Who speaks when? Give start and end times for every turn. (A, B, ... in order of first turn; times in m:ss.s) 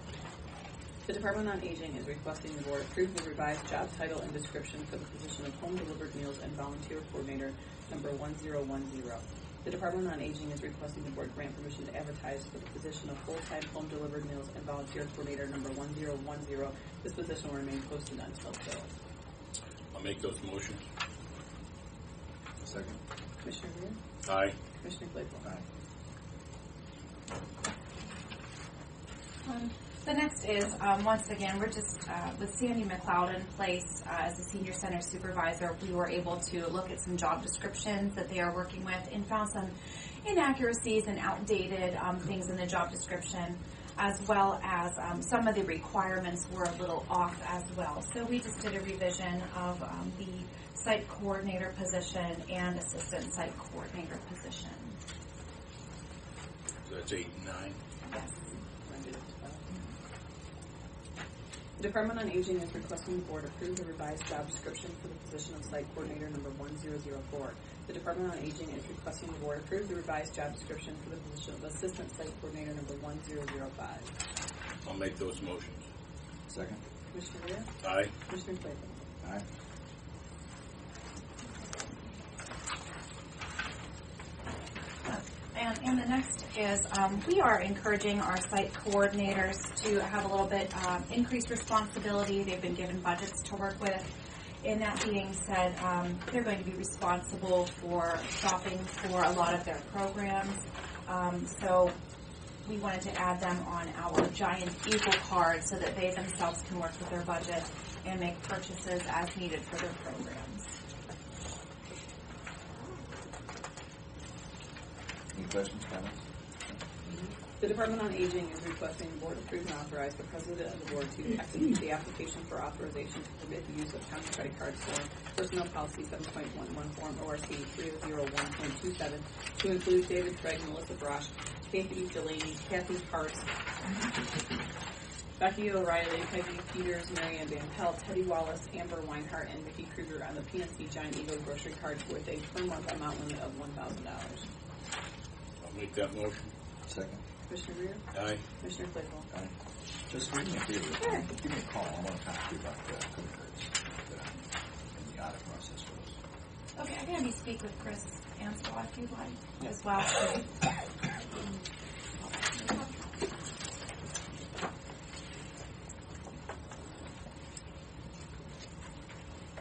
0:01.1-0:18.9 A
0:19.9-0:20.8 B
0:22.6-0:23.0 C
0:23.4-0:24.0 A
0:24.2-0:24.6 B
0:24.7-0:25.5 A
0:29.4-0:55.0 D
0:56.8-0:57.8 B
0:58.4-0:59.7 A
1:01.8-1:14.1 A
1:14.8-1:15.8 B
1:16.5-1:16.8 C
1:17.1-1:19.0 A
1:17.8-1:18.1 B
1:25.0-1:42.0 D
1:42.6-1:50.7 D
1:55.3-1:56.8 C
1:57.1-2:13.5 A
2:15.4-2:24.5 A
2:25.6-2:26.5 B
2:26.9-2:27.2 C
2:27.5-2:28.0 A
2:28.1-2:28.4 B
2:28.6-2:29.3 A
2:30.1-2:34.4 C
2:34.9-2:36.2 C
2:36.8-2:40.6 D
2:42.2-2:43.2 D